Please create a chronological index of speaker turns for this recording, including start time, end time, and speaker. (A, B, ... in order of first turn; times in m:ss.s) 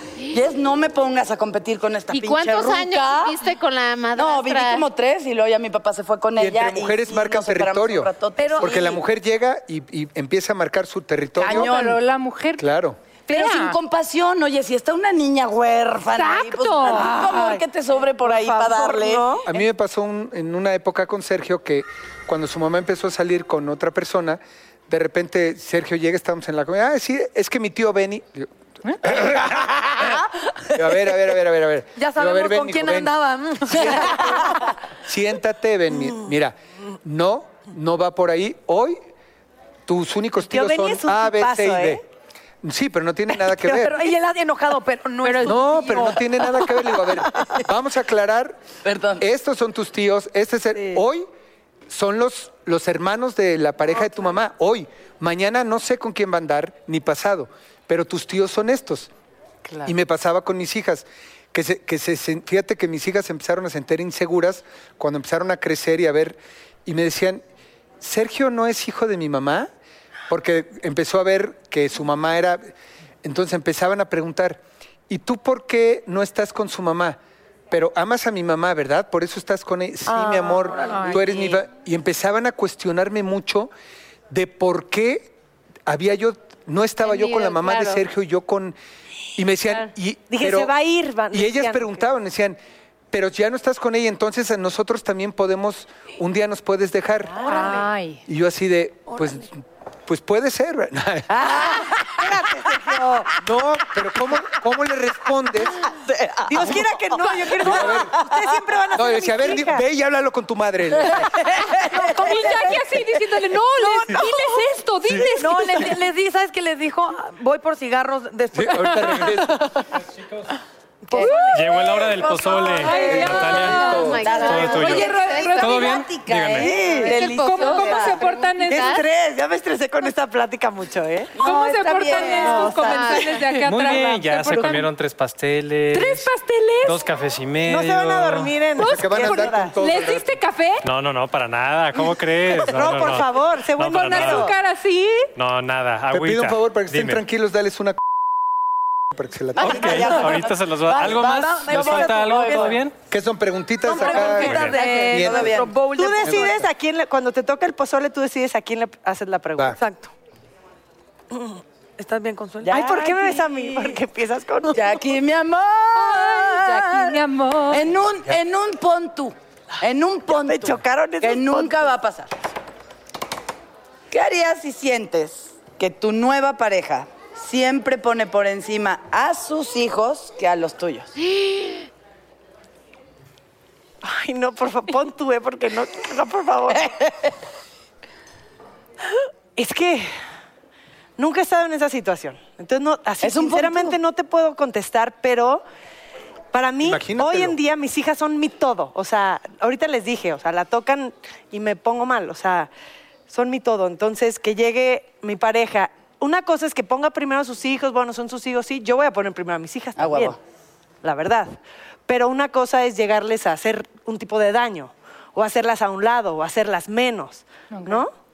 0:00.3-0:03.4 A
0:02.1-0:04.8 B
0:04.1-0:09.0 A
0:06.4-0:11.7 C
0:08.4-0:08.7 D
0:11.4-0:12.0 A
0:11.4-0:12.6 E
0:12.6-0:13.0 C
0:13.3-0:13.8 E
0:13.3-0:19.2 A
0:16.2-0:17.6 E
0:18.7-0:19.1 F
0:19.5-0:30.0 C
0:30.8-0:33.1 C
0:32.0-0:34.6 D
0:33.7-0:34.3 C
0:35.0-0:39.0 C
0:39.9-0:42.0 C
0:40.4-0:42.0 F
0:42.6-0:44.0 C
0:43.6-0:47.6 D
0:45.2-0:45.5 E
0:45.4-0:48.6 C
0:48.8-0:49.2 A
0:49.2-0:51.2 C
0:51.9-0:59.1 C
0:59.8-1:07.4 C
1:08.0-1:09.7 C
1:10.3-1:12.6 C
1:13.2-1:17.2 C
1:17.7-1:23.7 C
1:20.1-1:20.5 F
1:20.4-1:21.6 D
1:20.9-1:21.2 E
1:24.3-1:25.3 C
1:25.9-1:28.8 C
1:27.0-1:28.0 B
1:29.4-1:30.7 C
1:30.3-1:32.0 F
1:31.3-1:32.6 C
1:33.1-1:37.4 C
1:37.3-1:37.8 F
1:37.4-1:37.8 D
1:37.5-1:38.2 E
1:38.3-1:41.5 C
1:39.1-1:39.4 D
1:41.4-1:43.3 F
1:43.4-1:45.7 C
1:46.4-1:49.8 F
1:46.6-1:49.6 D
1:47.6-1:48.1 C
1:48.9-1:51.5 C
1:51.8-1:56.0 E
1:51.9-1:52.9 D
1:53.7-1:54.6 D
1:55.3-1:59.7 D
1:58.5-1:59.6 C
2:01.0-2:03.3 D
2:01.1-2:01.4 A
2:01.2-2:01.6 E
2:01.5-2:06.8 G
2:02.3-2:03.1 A
2:02.8-2:06.0 E
2:02.9-2:04.2 C
2:03.6-2:06.0 B
2:04.1-2:08.3 A
2:06.6-2:09.0 E
2:06.9-2:09.0 B
2:08.7-2:11.3 F
2:11.3-2:13.3 A
2:11.4-2:14.9 E
2:13.6-2:16.3 G
2:15.9-2:17.0 E
2:16.8-2:18.5 G
2:17.6-2:19.7 F
2:18.8-2:20.8 E
2:18.8-2:20.4 C
2:20.8-2:24.5 G
2:22.5-2:24.5 F
2:23.9-2:25.3 E
2:25.4-2:27.2 G
2:26.1-2:28.0 C
2:29.1-2:30.0 C
2:29.6-2:32.8 A
2:29.6-2:33.0 G
2:31.0-2:32.8 D
2:33.1-2:35.5 C
2:33.8-2:36.6 D
2:34.4-2:34.8 G
2:34.6-2:35.2 E
2:35.1-2:35.7 A
2:35.9-2:39.8 F
2:36.2-2:36.6 C
2:39.8-2:40.1 D
2:41.4-2:43.4 D
2:42.6-2:43.2 A
2:42.7-2:44.8 F
2:44.7-2:52.3 A
2:46.0-2:47.8 E
2:50.3-2:51.8 F
2:54.1-3:01.1 A
3:01.2-3:01.9 B
3:04.0-3:07.0 F
3:09.6-3:10.1 F
3:11.2-3:15.6 F
3:13.2-3:14.0 A
3:16.5-3:22.7 F
3:16.8-3:17.6 C
3:23.3-3:30.4 F
3:30.0-3:30.4 A
3:31.0-3:31.5 F
3:32.1-3:38.1 F
3:37.7-3:38.0 E